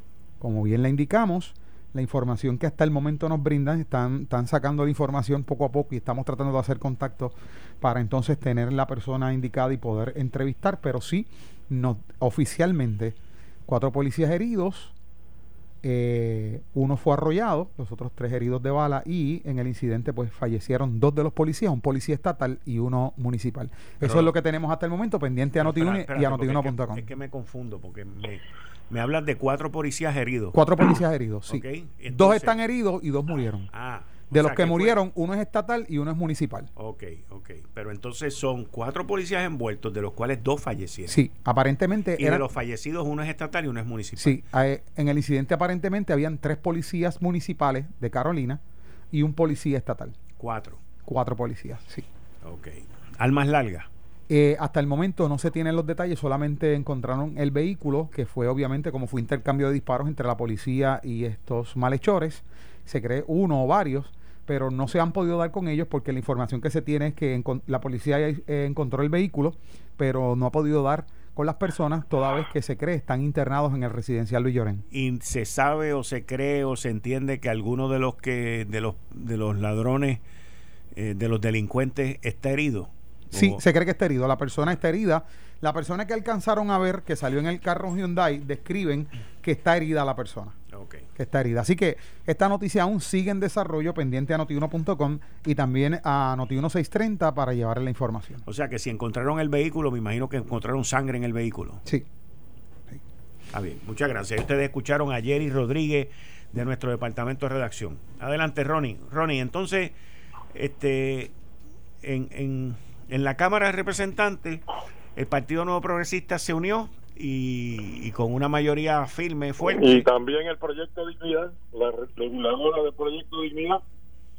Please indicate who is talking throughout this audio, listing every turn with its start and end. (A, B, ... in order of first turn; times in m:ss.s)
0:00.4-0:13.2 A
0:13.7-0:14.9 A
0:15.8-0:27.0 A
0:24.0-0:24.3 B
0:25.6-0:30.6 B
0:30.5-0:33.7 A
0:31.5-0:32.6 B
0:33.7-0:35.0 B
0:34.2-0:36.7 A
0:36.8-0:41.2 B
0:41.1-0:42.4 A
0:42.2-0:44.4 B
0:44.2-0:48.6 A
0:49.1-0:50.2 A
0:50.4-0:50.8 B
0:51.0-0:52.1 A
0:52.4-0:53.9 B
0:54.3-1:14.8 A
1:14.9-1:20.2 B
1:20.9-1:23.6 B
1:23.3-1:30.6 A
1:30.7-1:31.1 B
1:31.2-1:38.4 A
1:38.4-1:41.8 B
1:43.5-1:50.0 B
1:50.5-1:51.3 B
1:52.0-2:00.1 B
1:59.6-2:03.8 C